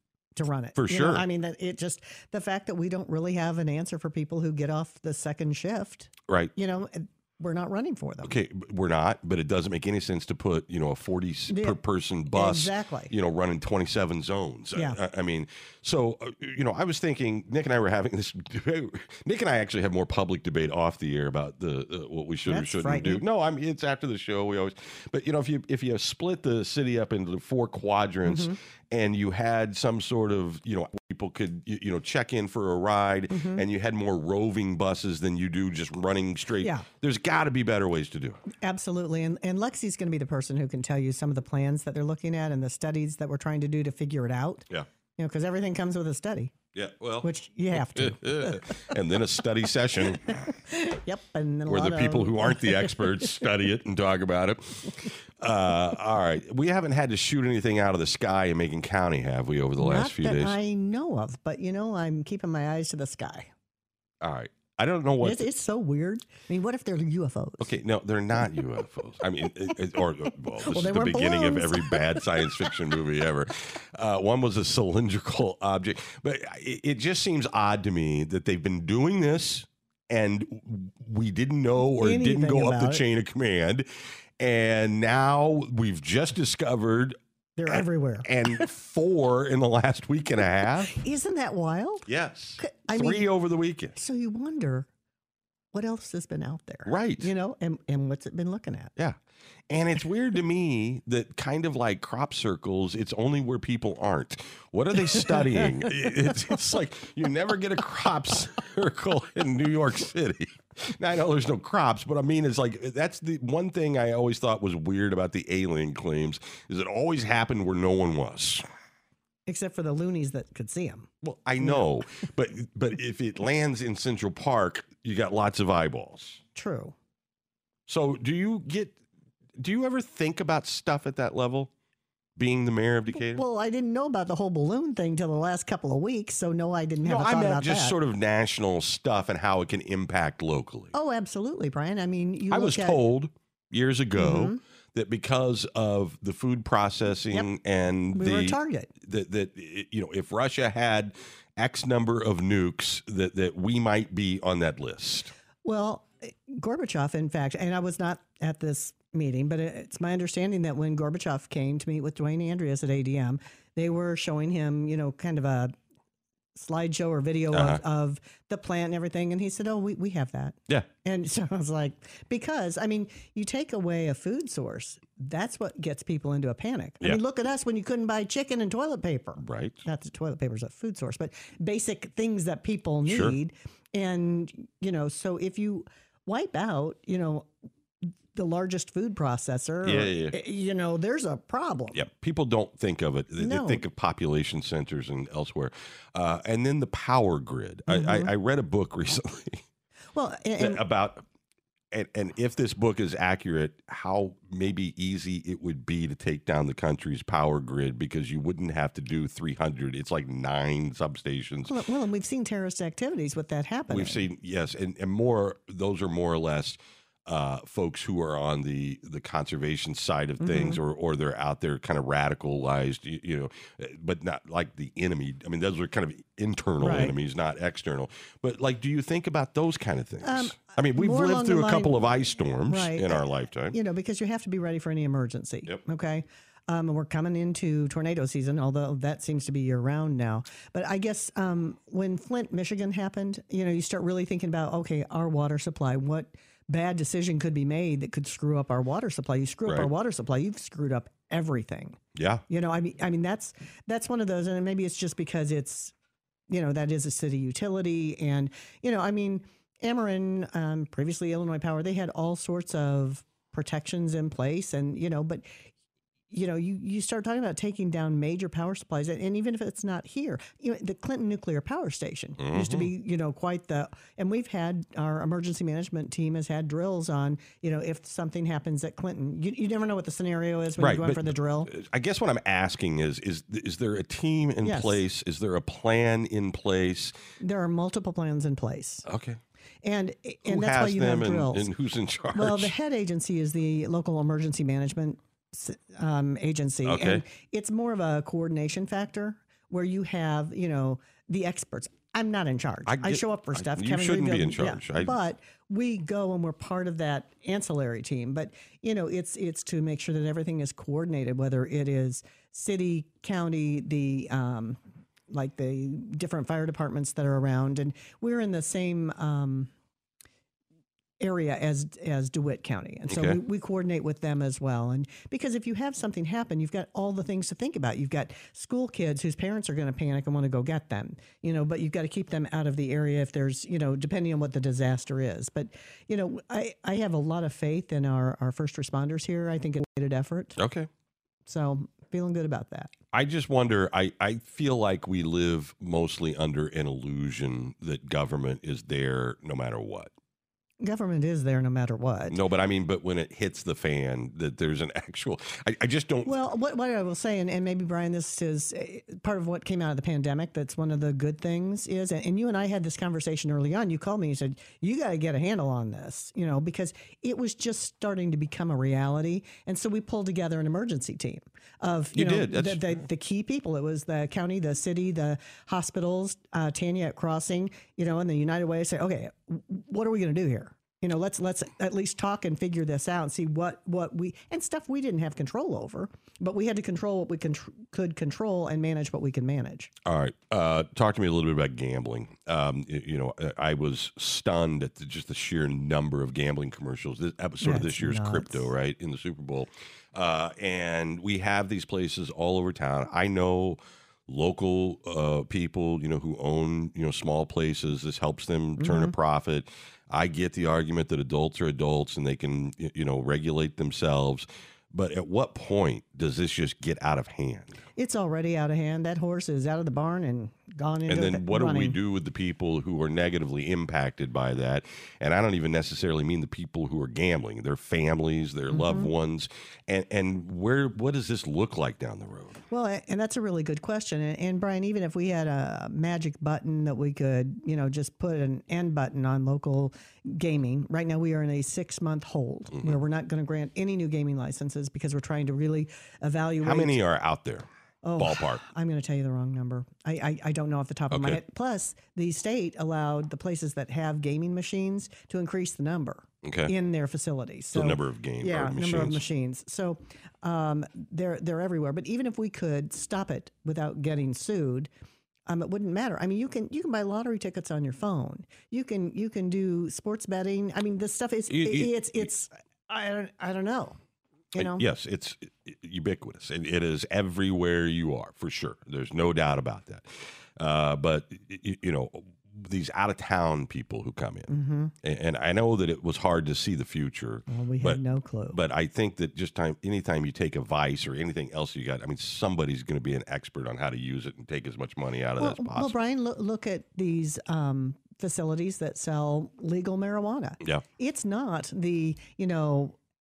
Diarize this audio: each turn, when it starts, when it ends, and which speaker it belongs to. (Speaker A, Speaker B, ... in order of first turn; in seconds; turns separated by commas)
Speaker A: 0.4-8.3, Speaker B: 0.8-1.2, Speaker B: 6.3-6.5, Speaker B: 8.2-38.4, Speaker A: 11.5-11.8, Speaker A: 12.3-13.1, Speaker A: 22.5-23.2, Speaker A: 28.2-28.6, Speaker A: 33.3-33.6, Speaker A: 36.6-36.9, Speaker A: 38.6-46.5, Speaker B: 46.7-50.3, Speaker A: 47.2-48.9, Speaker A: 50.2-53.3, Speaker B: 51.7-60.6, Speaker A: 59.8-63.5, Speaker B: 64.2-65.5, Speaker A: 65.2-67.7, Speaker B: 67.6-83.9, Speaker A: 70.6-72.7, Speaker A: 82.0-83.0, Speaker B: 84.4-91.0, Speaker A: 87.6-88.7, Speaker A: 90.9-92.0, Speaker B: 92.1-94.0, Speaker A: 92.6-93.3, Speaker A: 94.0-94.9, Speaker A: 95.7-98.9, Speaker B: 96.9-97.3, Speaker B: 99.7-118.6, Speaker A: 105.1-105.7, Speaker A: 119.5-121.1, Speaker B: 121.2-126.4, Speaker A: 126.5-127.0, Speaker B: 127.9-129.0, Speaker B: 129.6-131.7, Speaker B: 132.4-133.4, Speaker A: 133.2-137.9, Speaker B: 137.1-140.9, Speaker A: 140.9-143.0, Speaker B: 142.5-155.3, Speaker A: 144.2-144.6, Speaker A: 148.1-148.9, Speaker A: 155.6-165.7, Speaker A: 166.6-187.5, Speaker B: 167.5-167.8, Speaker B: 179.4-179.8, Speaker B: 183.1-183.4, Speaker A: 188.3-192.0, Speaker B: 189.8-190.3, Speaker B: 191.9-199.6, Speaker A: 193.4-193.8, Speaker A: 197.9-198.3, Speaker A: 200.1-200.8, Speaker B: 200.6-201.2, Speaker B: 201.9-211.7, Speaker A: 211.7-214.3, Speaker B: 213.9-233.8, Speaker A: 220.4-220.8, Speaker A: 226.8-227.2, Speaker A: 230.2-232.0, Speaker A: 232.7-255.9, Speaker B: 252.2-252.4, Speaker A: 256.5-265.5, Speaker A: 266.3-281.7, Speaker B: 272.4-272.9, Speaker B: 280.8-287.2, Speaker A: 284.6-285.0, Speaker A: 287.4-289.1, Speaker B: 289.1-289.4, Speaker A: 289.8-291.7, Speaker B: 290.4-292.7, Speaker A: 292.3-314.8, Speaker B: 296.9-297.2, Speaker B: 302.9-305.2, Speaker A: 315.3-319.7, Speaker A: 321.2-340.6, Speaker B: 323.1-323.4, Speaker B: 340.6-340.9, Speaker A: 341.5-342.9, Speaker B: 343.1-350.1, Speaker A: 350.8-352.4, Speaker B: 352.3-356.3, Speaker A: 356.2-389.9, Speaker B: 372.1-373.0, Speaker B: 390.1-417.8, Speaker A: 397.6-398.7, Speaker A: 408.8-409.1, Speaker A: 418.0-422.0, Speaker B: 421.1-432.6, Speaker A: 428.7-429.1, Speaker A: 432.7-447.0, Speaker B: 446.6-447.7, Speaker A: 448.0-464.9, Speaker B: 448.2-448.6, Speaker B: 451.1-451.4, Speaker B: 456.4-456.7, Speaker B: 457.7-459.2, Speaker A: 465.5-474.0, Speaker B: 471.5-471.9, Speaker A: 474.5-474.9, Speaker B: 474.6-484.5, Speaker A: 484.5-484.9, Speaker B: 485.0-488.0, Speaker A: 487.5-488.6, Speaker B: 488.5-495.9, Speaker A: 495.4-503.0